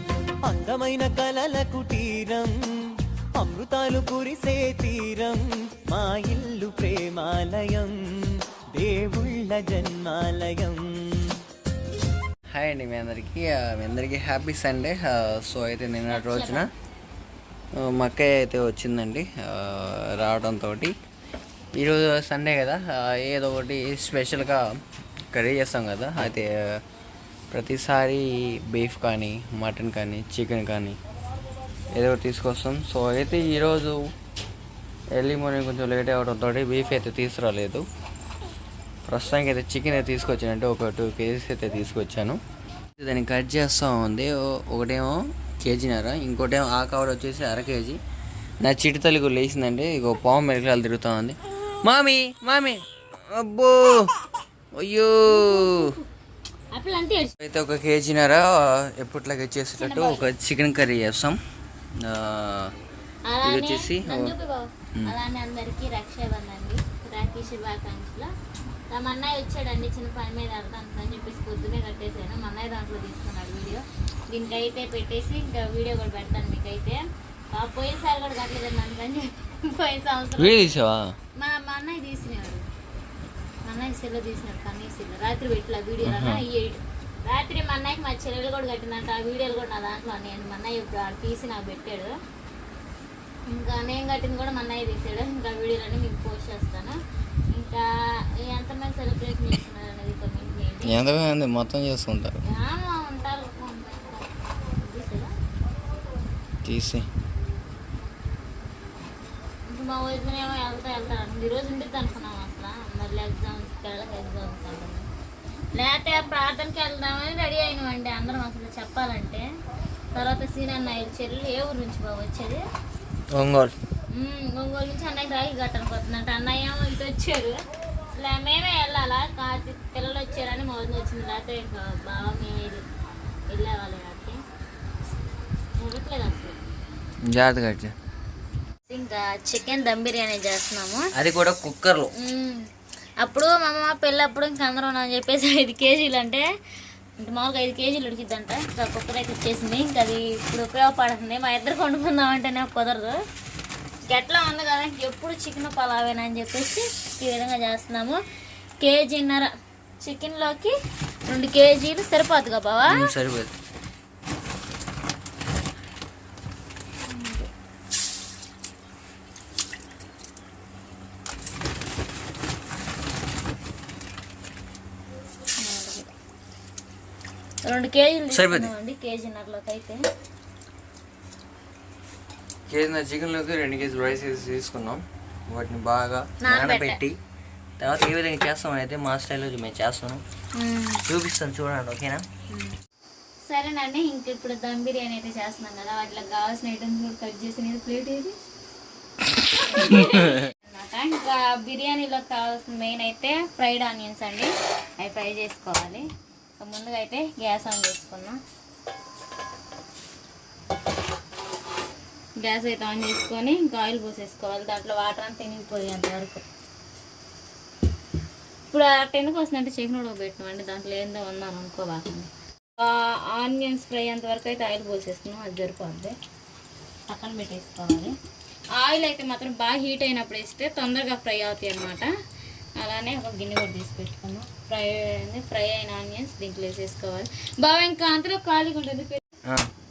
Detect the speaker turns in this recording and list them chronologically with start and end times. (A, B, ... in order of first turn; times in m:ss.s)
0:00.4-0:02.5 A
0:03.4-0:11.4 A
0:12.5-0:16.7 B
0:16.1-0:16.6 C
0:17.8-0:20.9 B
0:21.8-0:24.8 B
0:25.3-0:26.8 B
0:27.5-0:31.0 B
0:31.9-0:34.1 B
0:35.1-0:37.8 B
0:39.1-0:42.4 B
0:43.0-0:48.0 B
0:48.6-0:54.1 B
0:54.7-0:55.9 B
0:55.3-0:56.0 C
0:56.7-0:57.3 C
0:57.4-1:01.4 B
0:59.8-1:00.2 C
1:02.0-1:02.7 B
1:03.3-1:08.3 C
1:03.4-1:04.3 B
1:08.9-1:17.0 C
1:17.5-1:20.7 C
1:20.4-1:21.2 B
1:21.4-1:22.7 C
1:23.6-1:32.1 C
1:26.0-1:26.4 B
1:33.5-1:37.0 C
1:37.5-1:37.9 C
1:38.4-1:41.0 C
1:40.8-1:42.3 B
1:42.4-1:44.2 C
1:44.8-1:45.3 C
1:46.6-1:47.0 B
1:49.6-1:55.1 C
1:55.7-1:59.4 C
2:00.1-2:02.6 C
2:03.3-2:03.7 B
2:04.1-2:07.6 C
2:08.1-2:12.8 C
2:13.5-2:14.4 C
2:15.8-2:16.6 C
2:17.2-2:17.9 B
2:18.9-2:21.1 C
2:21.1-2:22.1 B
2:22.2-2:22.7 C
2:23.2-2:26.4 C
2:27.2-2:33.2 C
2:34.0-2:38.2 C
2:38.8-2:39.5 C
2:40.0-2:40.7 C
2:41.3-2:43.1 C
2:42.9-2:43.5 B
2:47.0-2:47.5 C
2:55.6-2:56.1 C
2:57.6-3:00.0 C
2:58.3-2:58.7 B
3:02.7-3:07.1 B
3:06.4-3:07.0 C
3:07.8-3:10.2 B
3:10.5-3:11.0 C
3:11.1-3:12.2 B
3:13.4-3:18.3 C
3:19.6-3:26.0 C
3:26.6-3:28.4 C
3:32.4-3:36.4 C
3:38.7-3:46.2 C
3:47.1-3:48.1 C
3:48.8-3:52.1 C
3:52.8-3:59.3 C